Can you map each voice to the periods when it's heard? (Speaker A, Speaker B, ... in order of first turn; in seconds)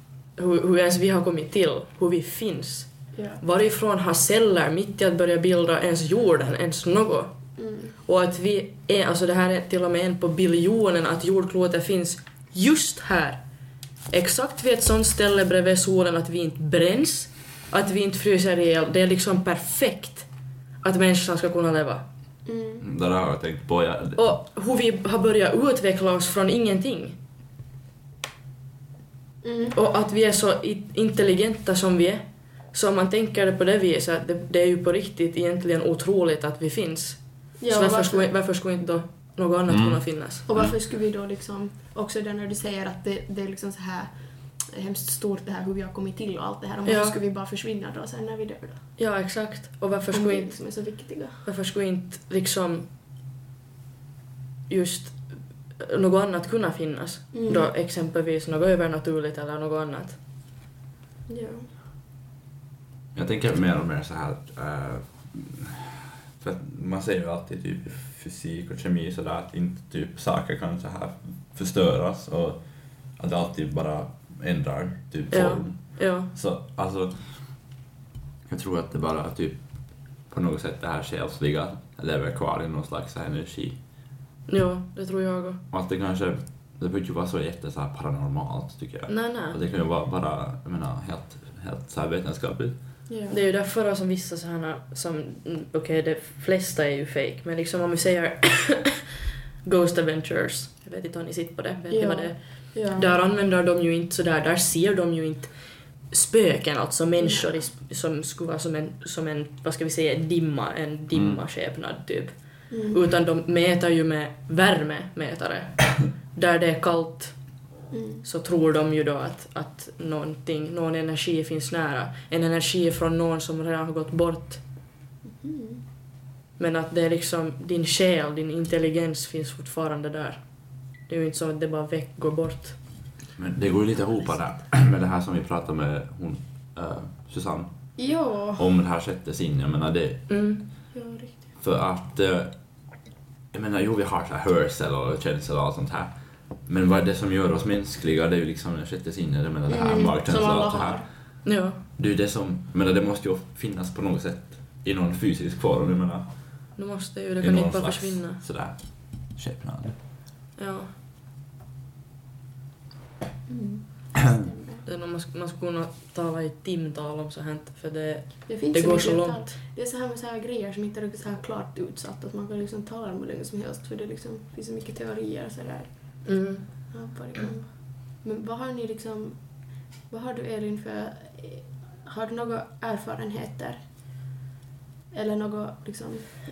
Speaker A: 0.4-2.9, 3.4-7.3, 8.1-13.4, 14.1-20.3, 20.8-22.0, 24.2-27.2, 29.7-37.2, 37.7-40.5, 46.9-47.2, 49.0-50.5, 51.4-52.9, 54.7-55.2, 55.8-60.2, 75.3-76.3, 84.5-85.6, 89.1-89.6, 93.3-99.0, 99.7-105.5, 106.1-112.3, 112.9-117.3, 118.2-124.6, 126.6-130.4, 131.1-132.8, 140.3-140.7, 151.4-151.8, 156.8-158.4, 160.6-160.9, 164.8-169.5, 176.2-176.7
Speaker B: 3.1-3.4, 7.6-7.9, 22.5-22.8, 29.4-29.8, 37.6-38.3, 40.5-44.1, 44.6-48.8, 50.1-51.4, 57.3-57.7, 61.3-61.7, 93.1-93.4, 101.9-103.1, 107.2-107.7, 112.7-113.0, 117.9-118.2, 125.2-125.8, 138.0-138.7, 140.9-141.4, 149.7-151.1, 163.5-164.8, 168.5-176.2, 176.9-179.4, 180.1-183.8, 185.1-186.2
Speaker C: 22.8-24.2, 39.7-40.0, 63.1-72.6, 73.2-77.2, 78.5-79.6, 80.3-83.8, 85.7-92.8, 111.1-111.4, 133.4-137.7, 138.6-140.2, 141.6-142.5, 143.5-146.1, 146.7-151.0, 152.0-156.2, 157.4-158.8, 159.4-160.0